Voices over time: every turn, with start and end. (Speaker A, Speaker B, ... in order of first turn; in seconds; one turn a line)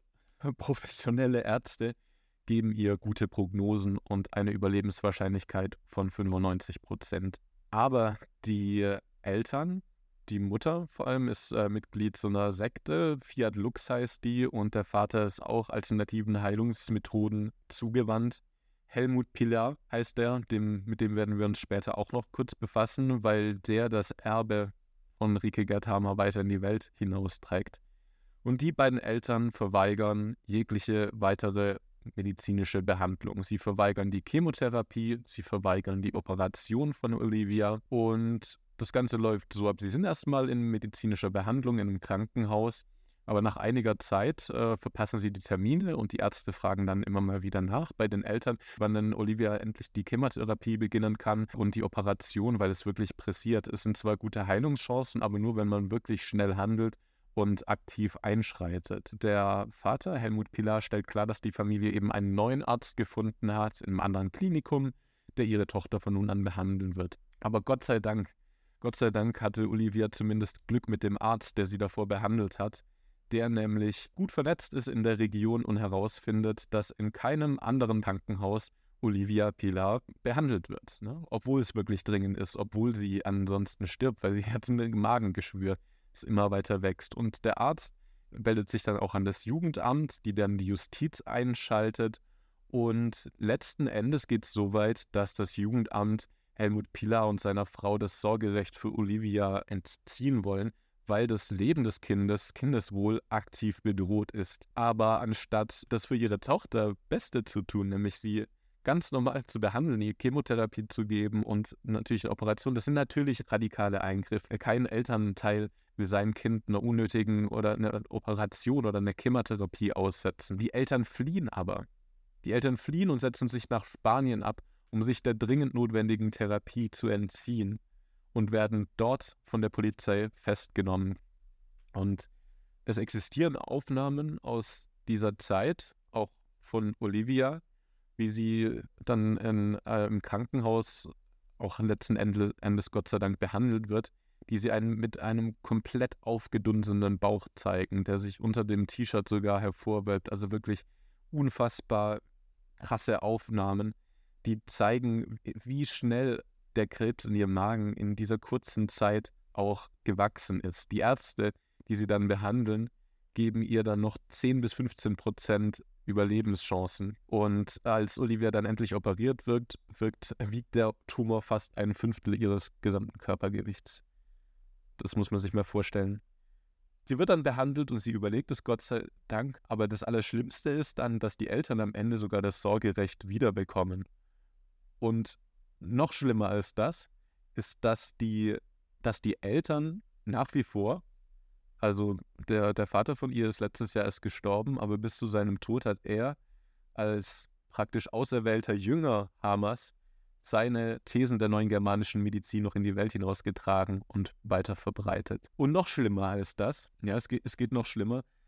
Speaker A: 0.4-27.8
Speaker A: 28.4-121.9
Speaker A: 122.4-127.8
Speaker A: 128.3-131.2
Speaker A: 131.9-132.3
Speaker A: 132.8-137.6
Speaker A: 138.2-152.2
Speaker A: 152.8-174.0
Speaker A: 175.0-176.2
Speaker A: 177.1-184.1
Speaker A: 185.0-191.0
Speaker A: 191.8-196.4
Speaker A: 196.9-208.2